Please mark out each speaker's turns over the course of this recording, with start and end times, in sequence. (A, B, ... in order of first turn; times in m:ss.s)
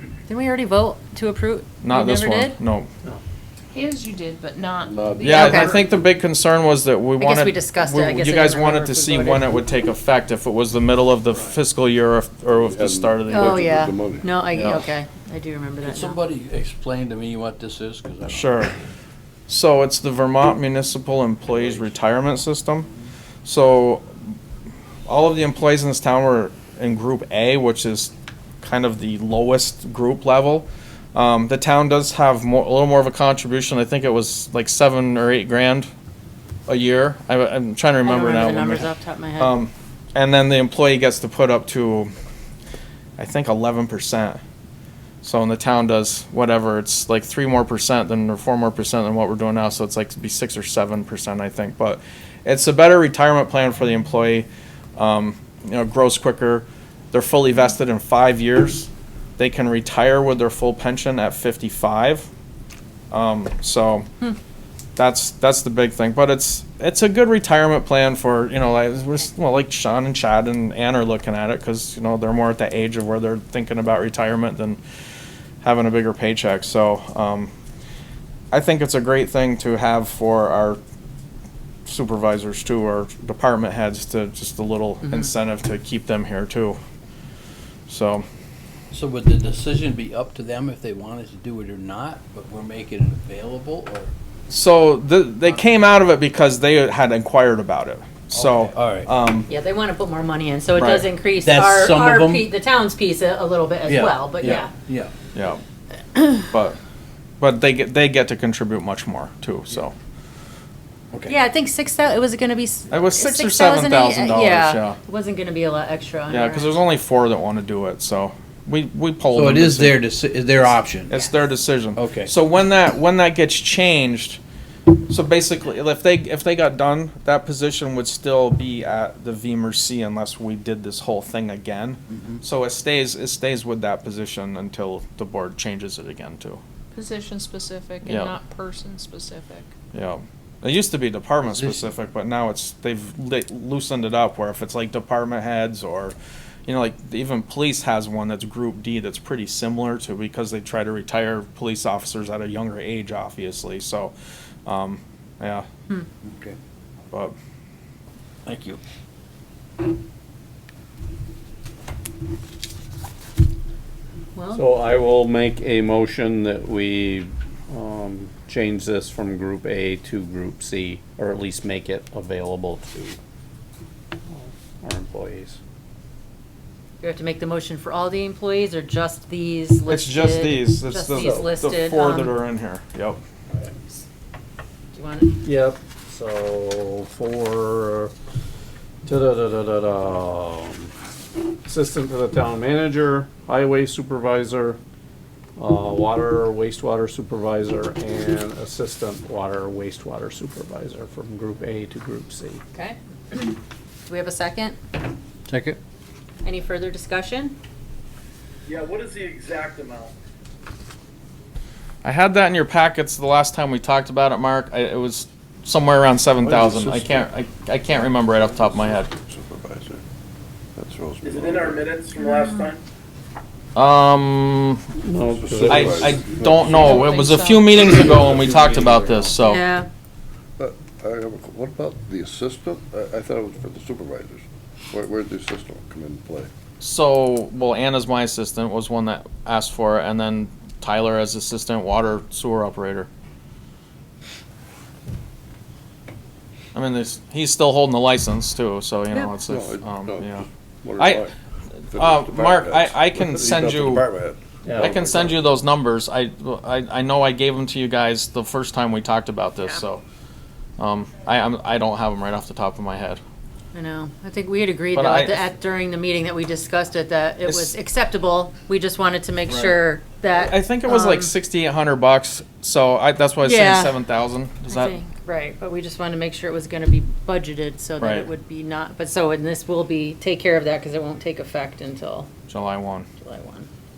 0:00.3-0:02.6 A
0:01.8-0:02.9 B
0:03.7-0:05.6 C
0:04.9-0:05.8 D
0:05.2-0:13.8 B
0:05.3-0:05.8 A
0:07.2-0:09.6 A
0:12.7-0:14.3 D
0:13.3-0:16.2 A
0:14.5-0:14.8 B
0:15.8-0:18.6 E
0:18.3-0:18.8 B
0:19.5-0:22.9 B
0:23.4-0:24.1 B
0:25.1-0:28.1 B
0:28.6-0:35.9 B
0:36.7-0:42.1 B
0:38.0-0:39.6 A
0:43.2-0:44.4 B
0:45.2-1:02.3 B
1:03.1-1:04.1 B
1:05.0-1:14.8 B
1:15.6-1:17.5 B
1:18.5-1:20.8 B
1:21.9-1:26.8 B
1:25.0-1:25.3 A
1:27.9-1:28.2 B
1:28.9-1:34.1 E
1:34.5-1:39.5 B
1:38.3-1:39.1 E
1:39.5-1:44.7 A
1:40.8-1:41.1 B
1:41.4-1:42.5 E
1:43.9-1:45.1 E
1:45.3-1:45.6 B
1:46.2-1:46.5 A
1:46.5-1:46.8 B
1:47.4-1:50.0 B
1:51.3-1:56.8 A
1:52.9-1:55.0 B
1:56.3-2:00.0 B
1:59.3-2:01.1 E
2:01.1-2:04.4 B
2:02.0-2:02.3 E
2:05.1-2:16.6 B
2:16.9-2:19.7 C
2:18.1-2:18.4 B
2:19.9-2:34.1 B
2:21.5-2:21.9 E
2:34.7-2:35.7 B
2:36.2-2:36.6 E
2:38.5-2:38.8 E
2:44.4-2:44.7 A
2:44.5-2:53.2 F
2:54.3-2:55.6 F
2:57.0-3:02.4 A
2:59.9-3:03.2 B
3:01.2-3:01.5 F
3:04.9-3:05.4 A
3:05.4-3:08.1 F
3:09.0-3:10.9 F
3:11.6-3:14.8 F
3:15.6-3:22.6 F
3:22.7-3:23.6 A
3:24.1-3:24.8 A
3:25.5-3:25.8 E
3:26.4-3:27.6 A
3:28.7-3:30.1 G
3:32.0-3:39.1 B
3:36.4-3:37.3 D
3:38.1-3:40.0 D
3:40.8-3:41.9 D
3:41.2-3:42.8 G
3:42.2-3:42.6 C
3:43.8-3:44.8 B
3:45.0-3:46.2 F
3:45.3-3:49.2 D
3:45.7-3:49.6 B
3:46.5-3:48.6 C
3:49.4-3:49.9 A
3:50.6-3:56.5 D
3:56.8-4:03.1 B
4:06.7-4:10.4 B
4:09.5-4:11.4 D
4:11.0-4:11.3 B
4:11.8-4:14.1 B
4:11.9-4:15.5 D
4:14.6-4:15.0 F
4:14.8-4:20.0 B
4:20.8-4:23.2 B
4:23.7-4:31.3 A
4:24.9-4:25.5 B
4:27.4-4:27.7 B
4:29.5-4:29.8 E
4:30.3-4:35.0 B
4:33.4-4:34.0 A
4:34.7-4:42.3 A
4:38.0-4:38.3 B
4:42.5-4:43.1 B
4:43.2-4:43.7 A